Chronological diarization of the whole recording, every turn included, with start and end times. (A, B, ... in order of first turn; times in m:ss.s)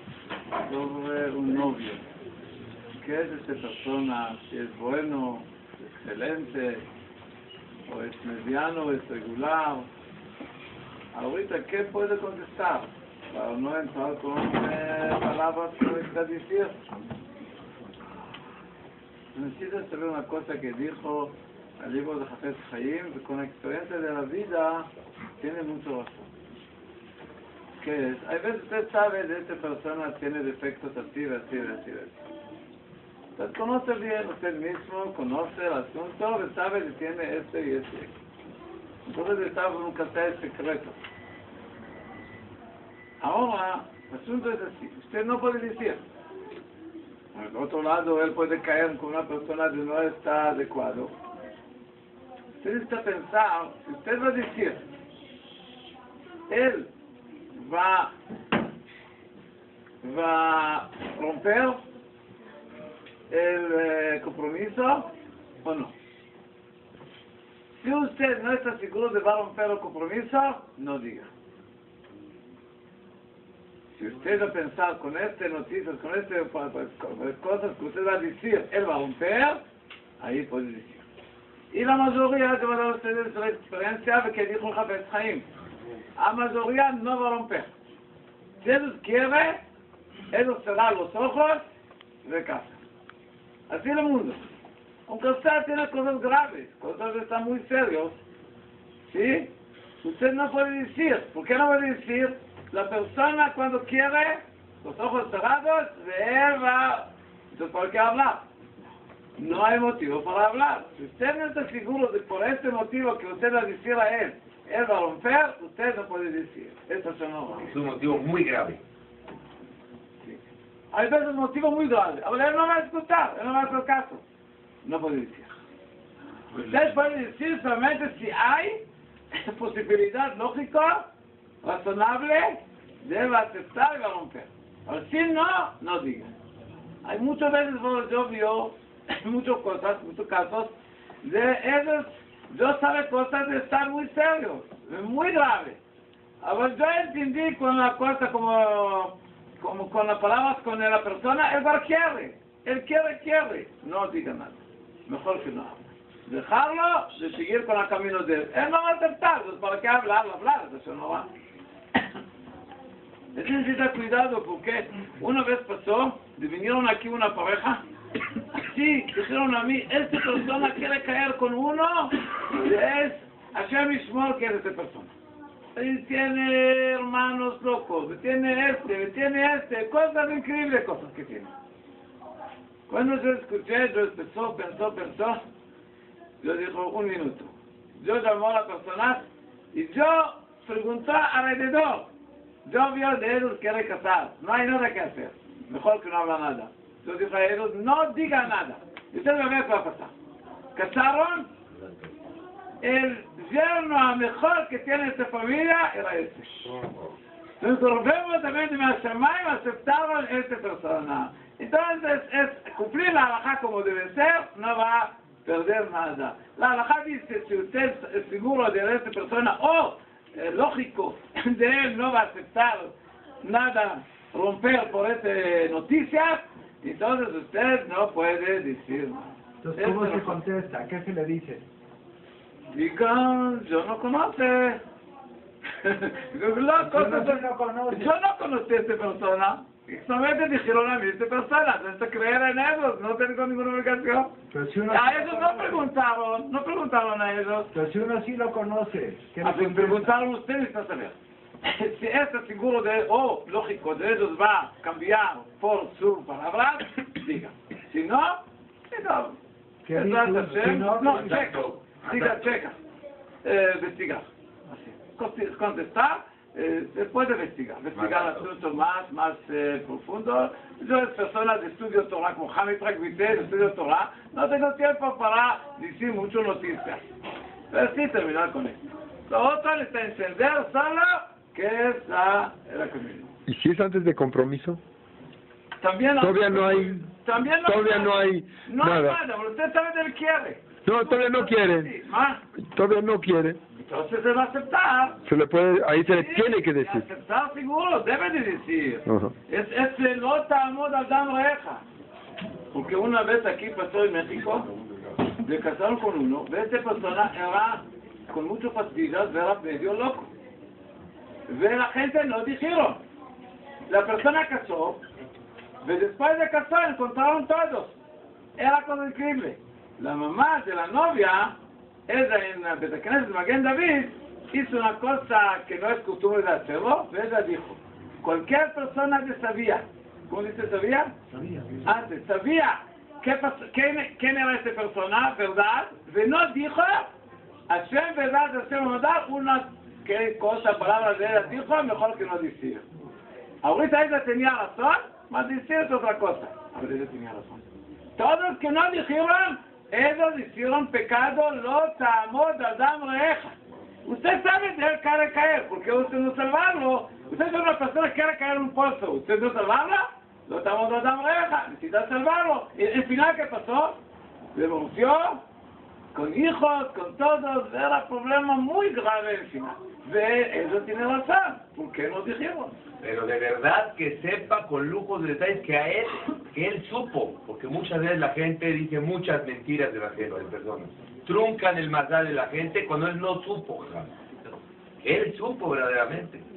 0:00.6-0:02.0 A
0:03.0-0:06.8 A
0:07.9-0:09.9 A
0:11.1-0:16.8 A
0:19.3-0:26.3 A
0:27.8-0:32.2 A
0:33.4-0:38.1 A
0:39.0-0:41.0 A
0:43.2-0:46.0 A
0:47.3-0:51.1 A
0:52.6-0:54.8 A
0:56.5-0:56.9 A
0:57.5-0:58.1 A
1:00.0-1:01.8 A
1:03.3-1:05.1 A
1:05.6-1:05.9 A
1:07.7-1:11.3 A
1:13.9-1:19.6 A
1:20.2-1:21.0 A
1:21.7-1:25.5 A
1:26.2-1:27.7 A
1:28.6-1:29.6 A
1:30.3-1:31.6 A
1:32.2-1:32.8 A
1:33.7-1:34.4 A
1:35.1-1:38.2 A
1:39.0-1:39.5 A
1:40.0-1:48.4 A
1:49.4-1:57.8 A
1:57.7-1:58.8 B
2:00.2-2:04.2 A
2:04.8-2:05.6 A
2:06.6-2:11.0 A
2:11.6-2:16.3 A
2:17.0-2:25.8 A
2:26.4-2:41.3 A
2:43.3-2:47.8 A
2:48.5-2:55.1 A
2:55.7-3:01.5 A
3:02.9-3:05.4 A
3:06.4-3:12.1 A
3:12.6-3:20.1 A
3:20.7-3:21.5 A
3:22.8-3:26.8 A
3:27.6-3:50.4 A
3:49.7-3:51.6 C
3:50.4-3:50.8 D
3:52.7-3:54.8 A
3:55.8-4:04.3 A
3:57.0-3:58.1 C
4:04.5-4:05.7 C
4:04.9-4:07.7 A
4:07.7-4:10.0 C
4:09.1-4:10.0 D
4:09.4-4:18.4 A
4:18.9-4:19.4 A
4:19.9-4:21.0 C
4:19.9-4:22.8 A
4:20.4-4:21.2 D
4:21.0-4:22.4 B
4:23.4-4:37.0 A
4:27.9-4:28.4 B
4:37.7-4:43.3 A
4:43.5-4:44.8 D
4:45.8-4:52.4 A
4:46.2-4:47.0 D
4:47.6-4:49.2 D
4:50.8-4:51.9 D
4:52.7-4:53.6 D
4:53.8-4:55.2 A
4:55.2-4:57.0 D
4:56.0-5:01.8 A
4:59.1-4:59.3 D
5:02.7-5:04.7 A
5:05.4-5:10.3 A
5:11.5-5:13.0 A
5:13.9-5:15.0 A
5:15.8-5:18.0 A
5:18.6-5:21.5 A
5:22.1-5:31.1 A
5:31.8-5:37.1 A
5:37.7-5:42.8 A
5:43.6-5:47.6 A
5:48.2-6:04.0 A
6:04.5-6:05.4 A
6:06.1-6:12.8 A
6:13.0-6:24.1 B
6:25.0-6:26.4 B